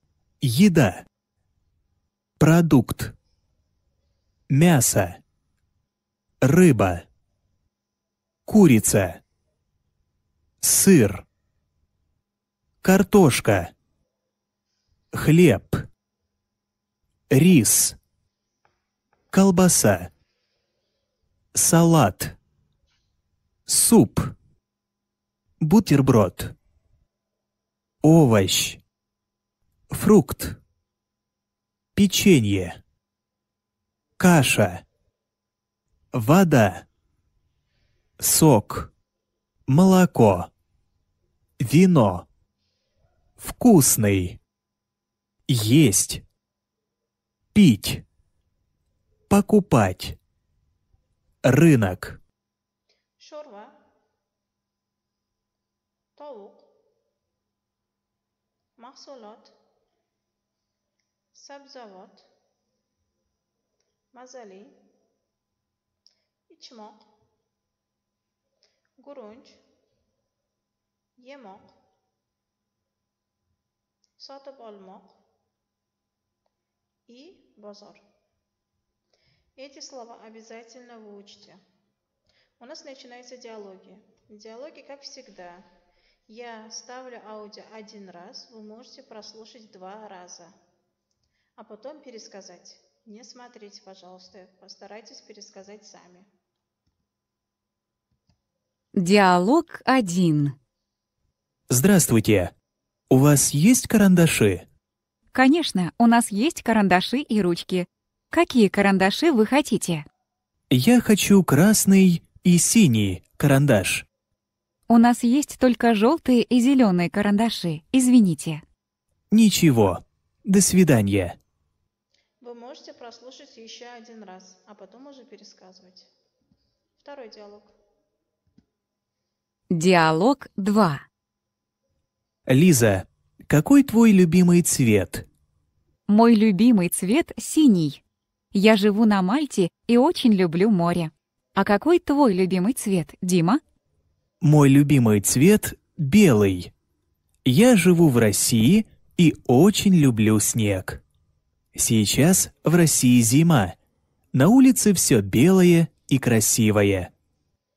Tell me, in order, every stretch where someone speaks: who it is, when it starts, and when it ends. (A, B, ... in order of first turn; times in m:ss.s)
0:00.4-0:01.0 A
0:02.4-0:03.1 A
0:04.5-0:05.2 A
0:06.4-0:07.0 A
0:08.5-0:09.2 A
0:10.6-0:11.2 A
0:12.8-0:13.7 A
0:15.1-0:15.8 A
0:17.3-0:18.0 A
0:19.3-0:20.1 A
0:21.5-0:22.4 A
0:23.7-0:24.3 A
0:25.6-0:26.5 A
0:28.0-0:28.8 A
0:29.9-0:30.6 A
0:32.0-0:32.8 A
0:34.2-0:34.8 A
0:36.1-0:36.8 A
0:38.2-0:38.9 A
0:39.7-0:40.5 A
0:41.6-0:42.3 A
0:43.4-0:44.4 A
0:45.5-0:46.2 A
0:47.5-0:48.0 A
0:49.3-0:50.2 A
0:51.4-0:52.2 A
0:53.2-0:53.8 B
0:56.2-0:56.7 B
0:58.8-0:59.5 B
1:01.3-1:02.3 B
1:04.1-1:04.8 B
1:06.5-1:07.1 B
1:09.0-1:09.6 B
1:11.2-1:11.7 B
1:14.2-1:15.1 B
1:17.1-1:18.0 B
1:19.6-1:21.6 B
1:22.6-1:25.6 B
1:26.3-1:30.5 B
1:31.6-1:36.3 B
1:38.9-1:40.5 C
1:41.7-1:42.5 A
1:43.1-1:44.6 A
1:45.3-1:50.0 C
1:50.7-1:54.1 A
1:54.9-1:58.6 C
1:59.3-2:01.4 A
2:02.4-2:06.1 B
2:07.0-2:07.7 B
2:09.7-2:11.0 C
2:12.5-2:15.2 A
2:16.1-2:18.0 C
2:18.5-2:23.6 C
2:24.4-2:26.7 A
2:27.4-2:31.0 A
2:31.7-2:33.8 A
2:34.3-2:37.1 A